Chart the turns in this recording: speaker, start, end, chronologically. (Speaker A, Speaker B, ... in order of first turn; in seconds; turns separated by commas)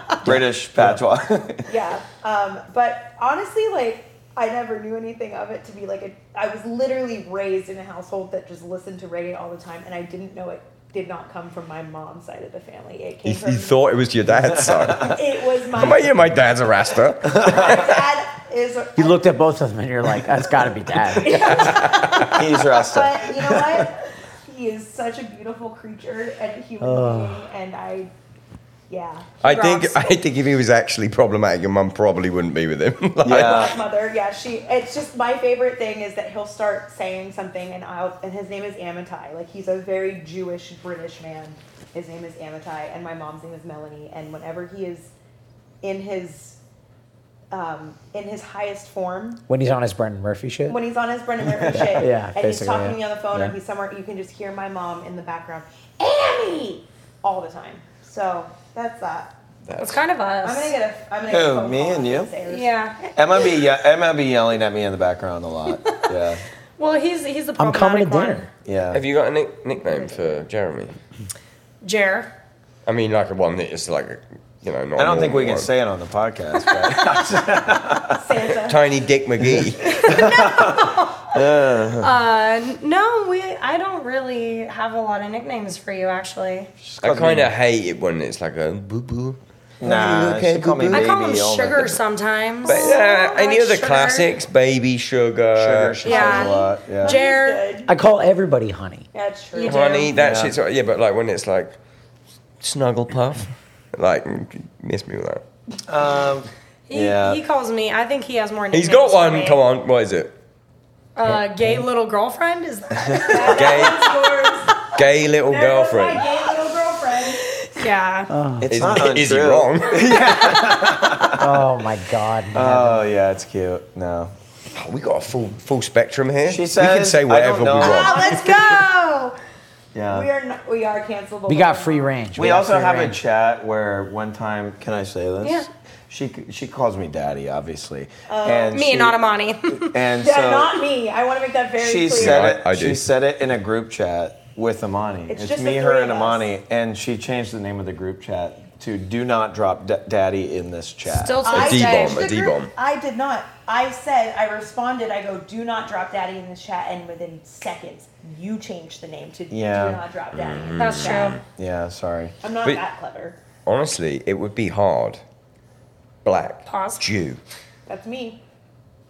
Speaker A: 0.2-1.7, Speaker B: 1.7-13.8, Speaker C: 13.2-15.2, Speaker A: 14.4-15.1, Speaker B: 15.0-16.3, Speaker C: 15.7-17.8, Speaker A: 17.3-17.9, Speaker B: 17.4-19.3, Speaker D: 19.0-21.8, Speaker B: 21.2-28.1, Speaker C: 21.3-22.4, Speaker A: 22.1-23.8, Speaker D: 26.8-27.5, Speaker B: 28.9-29.6, Speaker C: 29.4-33.8, Speaker E: 29.4-30.1, Speaker A: 33.2-33.8, Speaker B: 33.3-45.1, Speaker B: 45.8-46.6, Speaker B: 47.5-49.4, Speaker D: 49.5-50.8, Speaker B: 50.7-59.3, Speaker A: 51.4-52.0, Speaker D: 51.7-53.0, Speaker C: 59.6-60.0, Speaker E: 59.8-60.8, Speaker B: 60.4-62.7, Speaker A: 61.3-62.4, Speaker E: 62.4-63.4, Speaker A: 63.2-66.4, Speaker E: 66.8-68.5, Speaker D: 67.6-68.5, Speaker A: 68.7-69.0, Speaker C: 68.9-71.0, Speaker E: 71.8-72.3, Speaker C: 72.9-75.7, Speaker A: 75.0-78.2, Speaker E: 76.8-77.1, Speaker B: 78.1-78.9, Speaker C: 78.7-80.0, Speaker A: 79.5-82.1, Speaker E: 79.9-86.7, Speaker A: 86.9-87.5, Speaker C: 87.0-91.1, Speaker A: 89.8-92.0, Speaker E: 90.9-94.3, Speaker B: 92.6-93.3, Speaker C: 92.7-96.1, Speaker A: 95.6-97.2, Speaker E: 96.0-97.7, Speaker B: 96.0-97.9, Speaker D: 97.9-99.1, Speaker B: 99.1-100.0, Speaker E: 99.5-100.1, Speaker C: 99.6-101.8, Speaker A: 100.1-100.6, Speaker C: 102.6-105.4, Speaker A: 105.9-107.4, Speaker E: 106.9-109.6, Speaker C: 108.7-110.3, Speaker E: 111.2-114.1, Speaker D: 111.3-111.8, Speaker B: 113.2-117.6, Speaker C: 113.4-114.1, Speaker C: 114.9-116.3, Speaker E: 117.6-118.3, Speaker D: 118.3-119.0, Speaker A: 118.6-121.5, Speaker C: 118.7-120.1, Speaker D: 121.3-123.0, Speaker A: 122.5-124.3, Speaker C: 124.7-128.2, Speaker A: 126.5-128.2, Speaker E: 127.8-129.3, Speaker B: 127.8-129.0, Speaker A: 129.9-130.3, Speaker B: 130.1-132.2, Speaker D: 131.5-133.2, Speaker A: 132.3-139.2, Speaker E: 135.4-135.7, Speaker B: 138.3-138.8, Speaker E: 138.7-140.0, Speaker A: 139.7-140.8, Speaker B: 140.2-142.5, Speaker A: 141.8-151.4, Speaker C: 142.1-143.1, Speaker B: 145.3-146.5, Speaker E: 151.1-152.4, Speaker B: 151.4-161.4, Speaker C: 151.5-152.7, Speaker A: 159.5-160.0, Speaker C: 160.3-161.4, Speaker E: 160.8-161.4, Speaker A: 161.5-162.4, Speaker B: 162.4-163.4, Speaker C: 163.7-165.2, Speaker C: 166.2-167.4, Speaker E: 166.7-167.0, Speaker B: 167.9-168.4